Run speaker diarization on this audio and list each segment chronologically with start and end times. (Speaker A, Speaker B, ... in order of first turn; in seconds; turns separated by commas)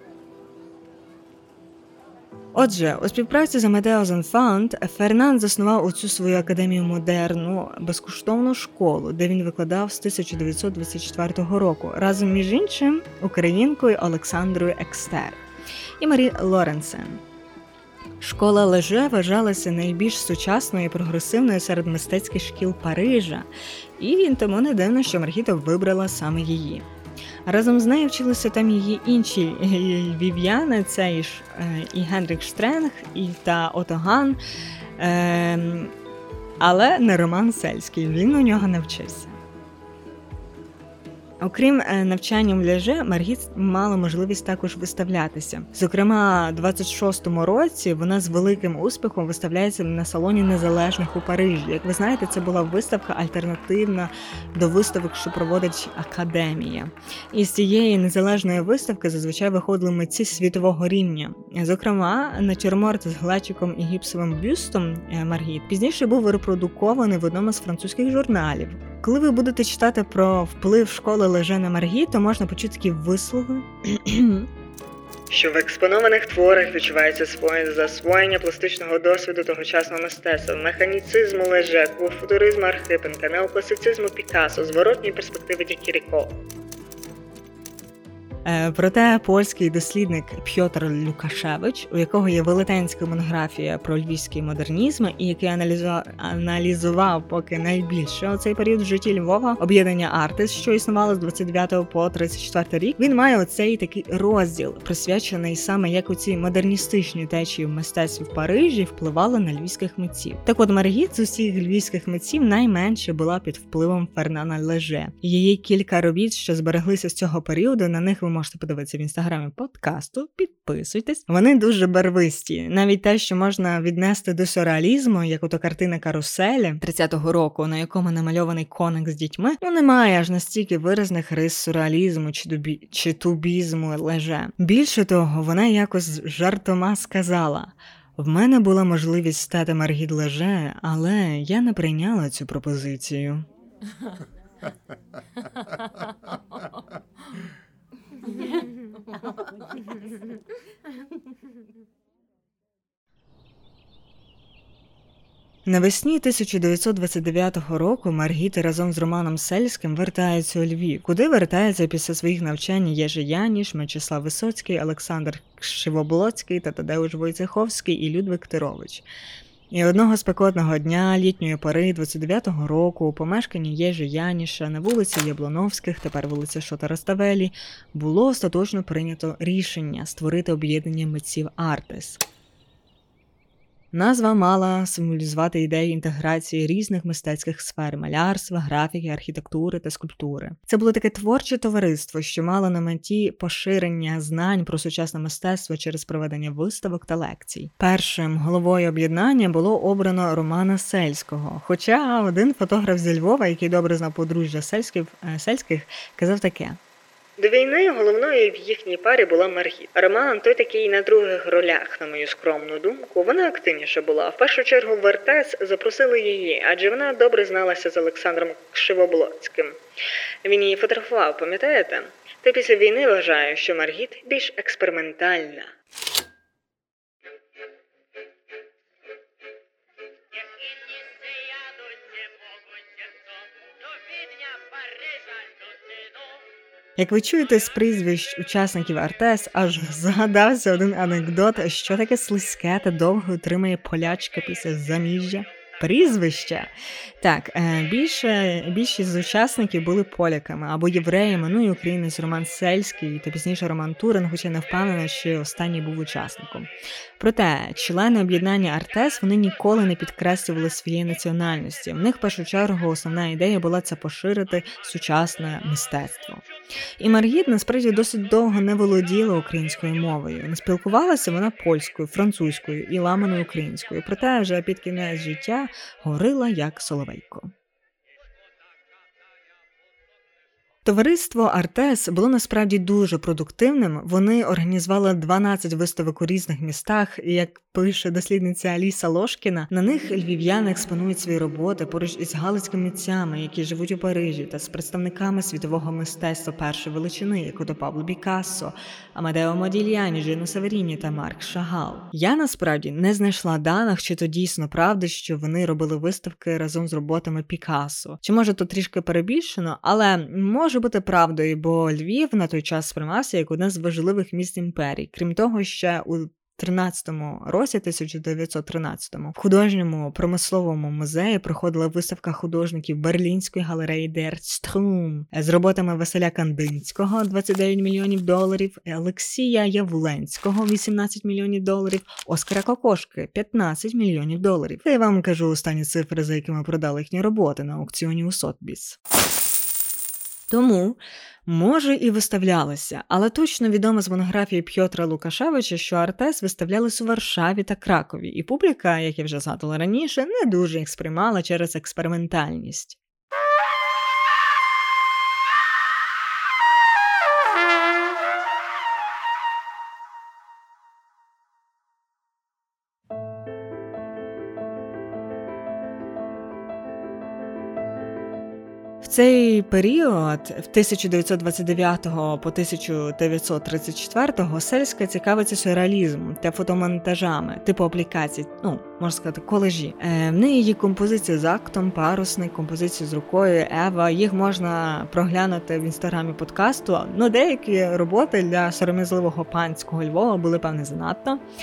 Speaker A: 2.5-15.4, Speaker A: 16.0-17.2, Speaker A: 18.2-26.9, Speaker A: 27.4-34.4, Speaker A: 35.0-35.9, Speaker A: 36.6-39.4, Speaker A: 41.4-74.5, Speaker A: 75.3-86.3, Speaker A: 88.4-143.4, Speaker A: 155.7-169.1, Speaker A: 169.7-182.2, Speaker A: 183.9-206.8, Speaker A: 207.4-219.8, Speaker A: 220.4-225.7, Speaker A: 237.0-266.4, Speaker A: 267.0-277.5, Speaker A: 280.8-339.0, Speaker A: 340.5-353.0, Speaker A: 369.0-391.4